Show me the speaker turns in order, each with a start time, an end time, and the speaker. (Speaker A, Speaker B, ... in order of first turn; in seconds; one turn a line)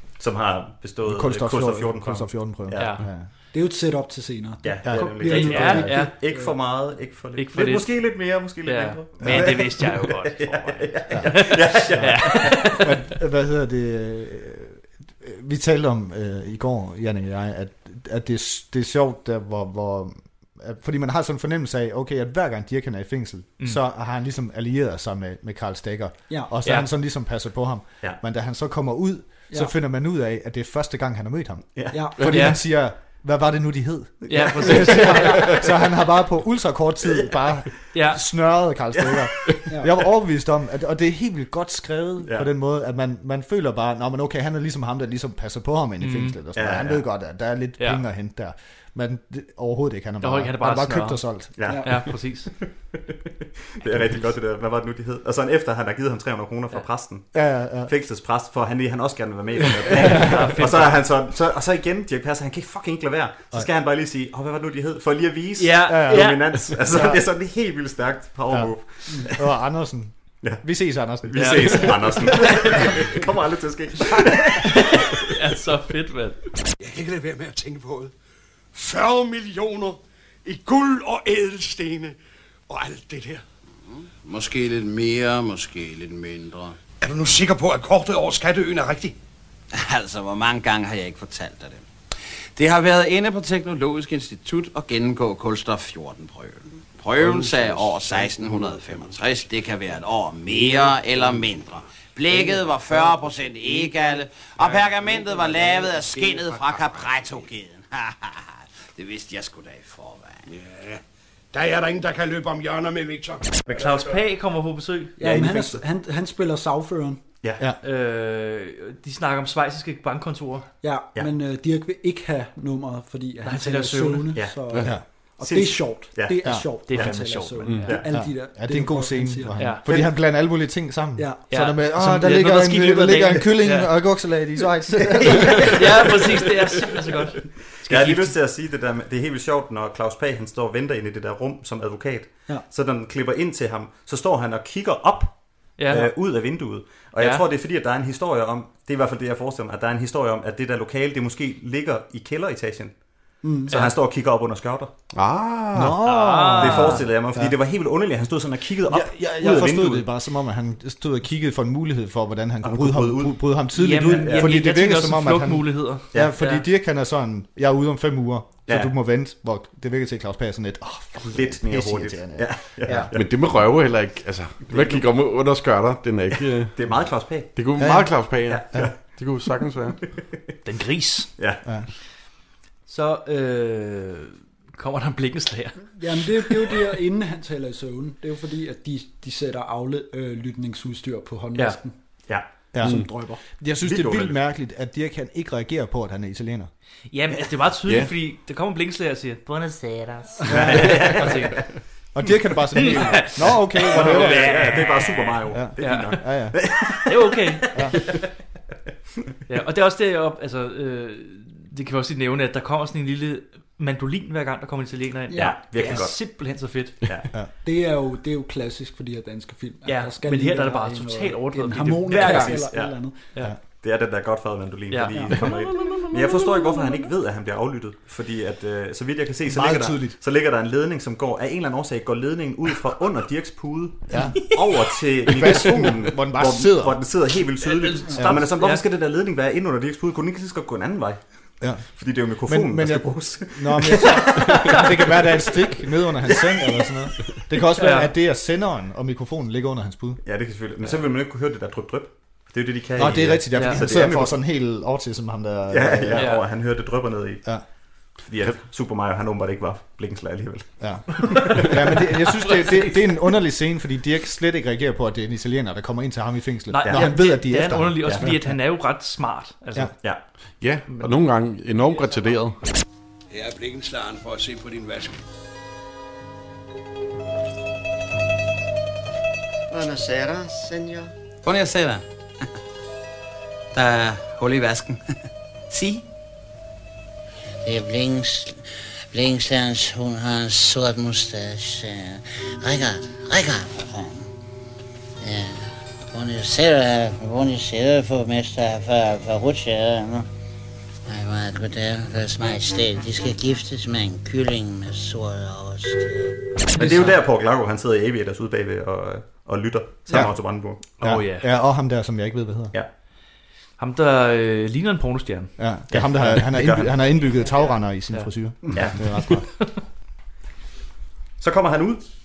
Speaker A: 0.1-3.0
Speaker B: 1.0-3.3
Speaker C: 2.7-3.1
Speaker D: 3.5-6.5
Speaker A: 4.6-12.8
Speaker B: 4.8-5.9
Speaker C: 5.2-6.1
Speaker C: 7.3-13.0
Speaker B: 9.2-9.7
Speaker B: 11.1-51.8
Speaker A: 31.7-32.0
Speaker D: 31.9-32.2
Speaker C: 32.3-32.6
Speaker A: 34.3-35.5
Speaker C: 34.3-35.5
Speaker A: 37.0-37.8
Speaker C: 37.9-38.2
Speaker A: 39.0-39.2
Speaker C: 46.0-46.4
Speaker A: 46.5-47.0
Speaker C: 50.2-52.5
Speaker A: 51.5-69.5
Speaker B: 57.3-57.9
Speaker B: 60.0-60.5
Speaker C: 60.0-61.0
Speaker C: 65.6-66.8
Speaker B: 65.9-67.3
Speaker B: 69.2-73.0
Speaker A: 71.2-75.2
Speaker C: 71.3-72.8
Speaker C: 74.5-76.4
Speaker E: 76.8-78.1
Speaker E: 78.7-82.2
Speaker E: 82.7-83.4
Speaker F: 83.9-86.8
Speaker E: 87.0-89.1
Speaker F: 89.7-91.8
Speaker F: 92.5-110.5
Speaker E: 104.6-106.8
Speaker E: 110.5-111.0
Speaker E: 111.5-114.0
Speaker C: 113.7-115.2
Speaker D: 115.2-117.2
Speaker A: 115.2-115.8
Speaker C: 117.8-120.7
Speaker D: 120.8-129.7
Speaker C: 123.4-124.4
Speaker A: 125.4-127.2
Speaker C: 126.8-128.1
Speaker B: 128.1-136.4
Speaker C: 129.6-129.9
Speaker D: 131.2-131.4
Speaker C: 131.5-134.5
Speaker A: 135.2-135.8
Speaker C: 135.2-138.4
Speaker A: 137.7-153.0
Speaker C: 145.8-146.3
Speaker C: 147.2-147.4
Speaker D: 153.4-153.7
Speaker A: 153.7-154.9
Speaker G: 155.1-156.0
Speaker B: 155.7-157.5
Speaker C: 156.0-157.1
Speaker A: 156.6-160.1
Speaker B: 158.9-173.1
Speaker A: 162.6-164.6
Speaker C: 163.7-166.7
Speaker A: 166.1-166.4
Speaker A: 168.7-168.9
Speaker A: 171.3-173.2
Speaker G: 173.1-180.0
Speaker A: 174.7-175.0
Speaker A: 176.7-177.8
Speaker B: 177.8-178.9
Speaker A: 178.5-179.1
Speaker C: 180.6-181.3
Speaker A: 181.4-181.6
Speaker C: 182.9-186.8
Speaker D: 185.9-191.9
Speaker B: 192.7-193.0
Speaker D: 192.8-193.4
Speaker B: 193.6-196.7
Speaker A: 193.8-194.4
Speaker C: 197.1-201.7
Speaker G: 197.8-198.1
Speaker A: 200.4-201.7
Speaker B: 200.5-201.2
Speaker B: 202.1-206.6
Speaker C: 202.7-208.1
Speaker A: 203.8-208.0
Speaker C: 209.5-217.0
Speaker D: 215.3-215.6
Speaker A: 215.3-216.3
Speaker A: 217.0-217.3
Speaker D: 217.6-223.2
Speaker C: 219.8-223.5
Speaker A: 222.1-241.2
Speaker C: 224.9-226.7
Speaker B: 229.4-230.2
Speaker B: 234.1-234.6
Speaker B: 235.2-237.1
Speaker C: 237.6-238.8
Speaker B: 238.2-238.4
Speaker B: 241.6-250.2
Speaker A: 241.8-245.2
Speaker A: 246.3-246.9
Speaker C: 247.8-248.1
Speaker A: 250.2-254.4
Speaker B: 253.0-256.3
Speaker C: 253.5-253.8
Speaker A: 255.7-257.5
Speaker C: 256.1-256.4
Speaker A: 258.2-261.8
Speaker B: 260.8-268.6
Speaker C: 262.1-263.2
Speaker C: 266.7-270.0
Speaker A: 266.8-267.3
Speaker A: 268.0-268.3
Speaker G: 270.6-272.7
Speaker C: 270.9-271.4
Speaker E: 273.3-275.2
Speaker F: 281.4-282.0
Speaker F: 283.7-286.0
Speaker H: 287.6-294.3
Speaker H: 295.2-300.3
Speaker H: 301.1-306.4
Speaker C: 306.7-307.1
Speaker A: 306.8-310.8
Speaker B: 310.1-312.7
Speaker C: 311.0-311.5
Speaker C: 313.8-315.5
Speaker B: 315.6-319.6
Speaker A: 315.9-317.1
Speaker A: 318.7-319.0
Speaker C: 319.3-319.7
Speaker A: 321.4-322.0